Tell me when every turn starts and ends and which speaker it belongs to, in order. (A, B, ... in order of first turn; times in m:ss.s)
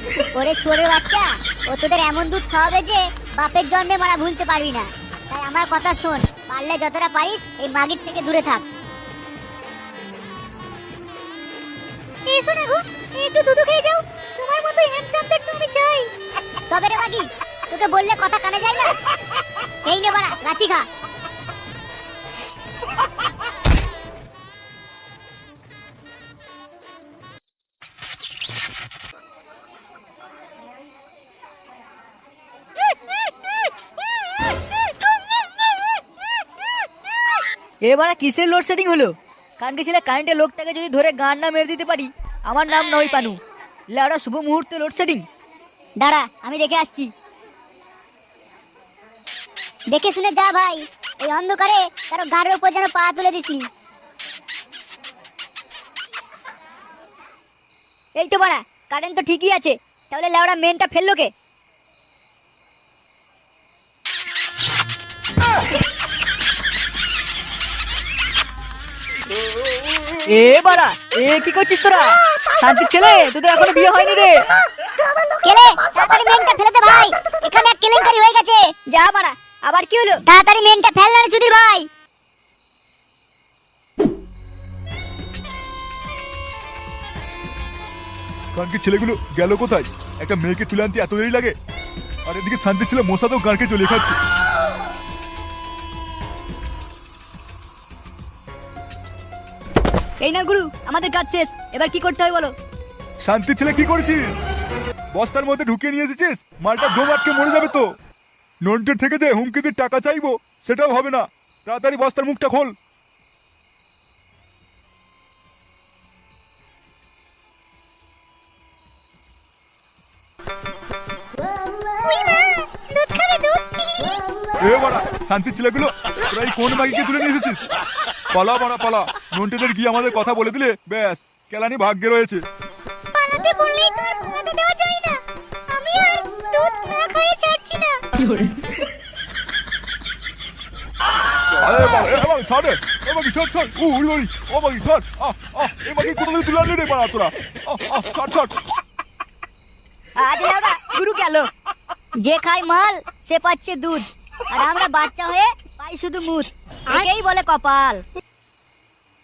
0:00.4-0:08.6 A
0:12.3-0:13.8 A
0:14.4-0:16.0 A
0:16.7-0:19.0 A
0:19.8-0:20.8 A
0:37.8-0:43.4 B
0:43.9-0:45.2 B
0:46.0-0:46.7 A
0:46.4-0:47.1 B
0:49.9-0:53.7 A
0:58.2-1:01.3 B
1:10.3-1:14.4 B
1:15.4-1:18.7 A
1:18.9-1:20.2 B
1:20.3-1:21.9 A
1:28.5-1:31.5 C
1:32.2-1:34.2 C
1:40.2-1:42.5 B
1:43.2-1:44.4 C
1:45.1-1:47.8 C
1:48.6-1:52.7 C
2:02.0-2:04.1 A
2:04.6-2:07.6 C
2:08.3-2:12.4 C
2:13.1-2:15.2 A
2:15.7-2:18.0 A
2:21.6-2:28.5 C
2:30.2-2:31.5 B
2:32.2-2:38.0 B